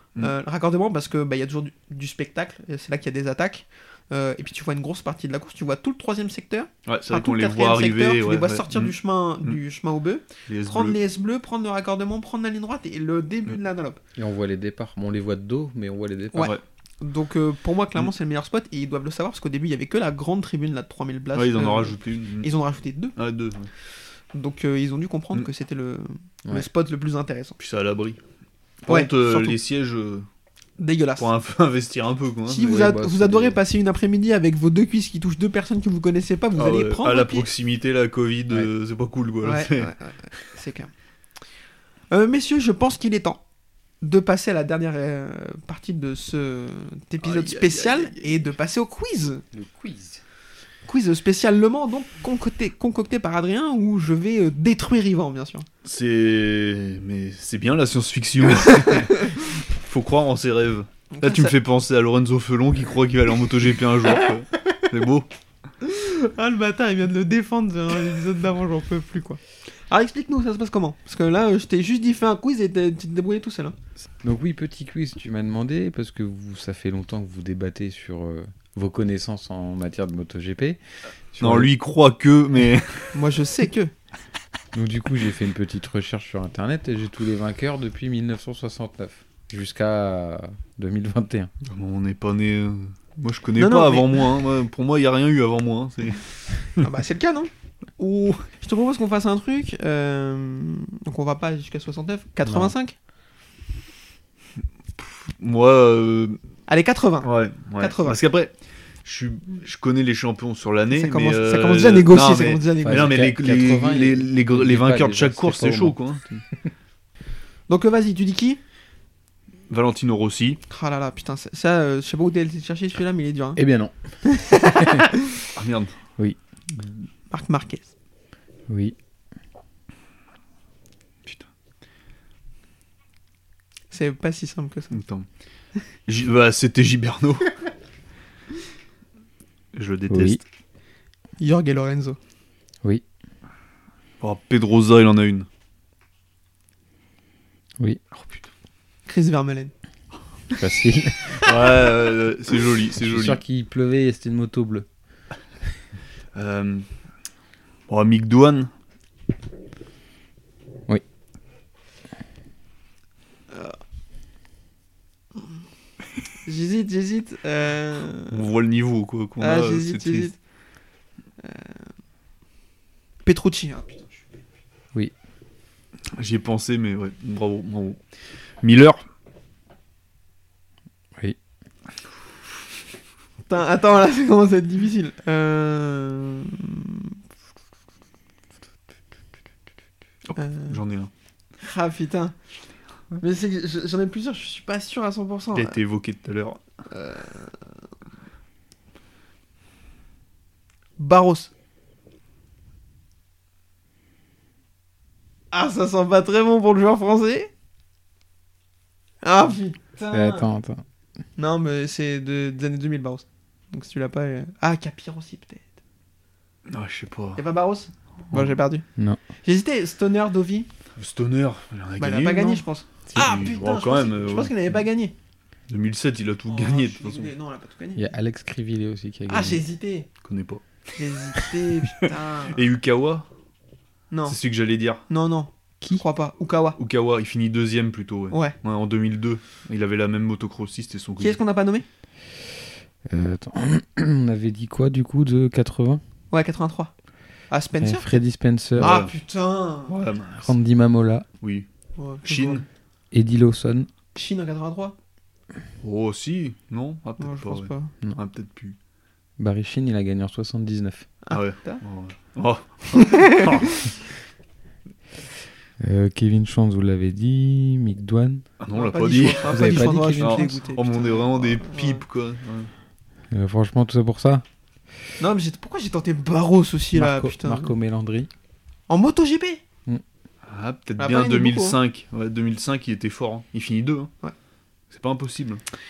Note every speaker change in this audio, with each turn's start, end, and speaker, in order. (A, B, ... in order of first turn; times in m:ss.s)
0:00.2-0:14.0 A
0:06.9-0:09.6 B
0:10.5-0:11.0 B
0:14.2-0:16.5 C
0:16.3-0:23.2 A
0:21.3-0:22.5 B
0:23.2-0:23.7 B
0:24.3-0:27.6 A
0:27.6-0:28.2 B
0:28.8-0:30.3 B
0:28.9-0:29.6 A
0:30.8-0:31.3 A
0:31.2-0:32.8 B
0:32.5-0:37.5 A
0:32.6-0:33.6 C
0:36.5-0:39.9 B
0:39.4-0:40.9 A
0:42.1-0:43.4 A
0:44.0-0:49.4 A
0:47.2-0:48.4 B
0:49.5-0:50.2 C
0:50.8-0:55.7 A
0:55.8-1:05.3 B
1:01.1-1:01.5 A
1:05.8-1:13.8 A
1:14.2-1:20.8 C
1:21.3-1:21.7 C
1:21.4-1:23.2 B
1:23.1-1:23.9 A
1:24.7-1:31.5 C
1:31.6-1:36.8 B
1:33.6-1:34.3 A
1:36.8-1:42.9 A
1:42.4-1:42.7 C
1:45.0-1:46.4 B
1:46.7-1:48.2 A
1:47.2-1:56.4 B
1:50.9-1:53.2 A
1:52.8-1:56.0 C
1:57.7-1:58.6 A
1:59.7-2:00.6 B
2:00.7-2:03.6 A
2:03.6-2:03.9 C
2:04.2-2:05.2 A
2:04.6-2:05.0 C
2:05.5-2:06.0 B
2:07.3-2:07.9 A
2:08.7-2:08.9 C
2:13.9-2:15.0 A
2:14.9-2:15.3 B
2:16.1-2:17.5 B
2:19.7-2:20.4 B
2:20.1-2:20.4 C
2:21.4-2:22.2 A
2:24.2-2:25.5 B
2:28.1-2:28.5 B
2:29.1-2:29.7 A
2:30.5-2:31.4 C
2:31.4-2:33.4 B
2:33.0-2:34.9 C
2:36.3-2:36.9 B
2:37.9-2:38.7 B
2:43.5-2:43.8 A
2:46.4-2:48.4 A
2:48.3-2:50.3 B
2:49.4-2:50.4 A
2:51.4-2:51.8 A
2:53.2-2:54.4 A
2:56.1-2:58.0 B
2:58.6-2:59.0 B
3:03.5-3:07.1 A
3:10.3-3:11.1 B
3:10.3-3:10.8 A
3:11.6-3:12.3 A
3:13.2-3:15.8 A
3:15.5-3:16.6 B
3:16.9-3:17.6 A
3:21.0-3:21.5 A
3:25.5-3:27.5 A
3:29.2-3:30.4 A
3:30.1-3:30.8 C
3:31.4-3:35.7 A
3:36.7-3:37.4 B
3:37.4-3:38.8 A
3:38.3-3:39.2 C
3:39.4-3:40.7 A
3:41.0-3:42.6 B
3:42.0-3:45.1 A
3:43.1-3:44.6 B
3:45.7-3:47.3 B
3:46.5-3:48.0 A
3:48.0-3:49.6 C
3:49.3-3:50.1 A
3:50.2-3:50.6 B
3:50.9-3:52.6 A
3:52.0-3:53.3 B
3:54.1-3:54.4 A
3:54.3-3:55.0 B
3:55.1-3:56.8 A
3:56.8-4:01.4 B
4:01.2-4:01.8 A
4:03.1-4:06.0 C
4:06.3-4:06.9 A
4:07.5-4:08.2 A
4:07.8-4:09.0 C
4:08.7-4:09.9 A
4:08.8-4:09.1 B
4:09.9-4:10.5 B
4:10.4-4:11.2 C
4:11.4-4:11.7 B
4:12.0-4:12.6 A
4:12.2-4:12.6 B
4:13.1-4:13.9 C
4:14.2-4:15.0 A
4:15.8-4:18.8 B
4:17.2-4:17.9 A
4:19.4-4:21.1 C
4:21.2-4:21.8 A
4:21.3-4:23.8 B
4:23.0-4:23.7 A
4:25.8-4:28.5 C
4:28.6-4:32.7 B
4:28.7-4:32.0 A
4:29.3-4:30.6 C
4:33.3-4:34.4 C
4:35.2-4:37.7 A
4:36.9-4:38.3 C
4:38.9-4:39.6 A
4:40.4-4:44.1 B
4:41.0-4:41.8 A
4:44.9-4:45.6 B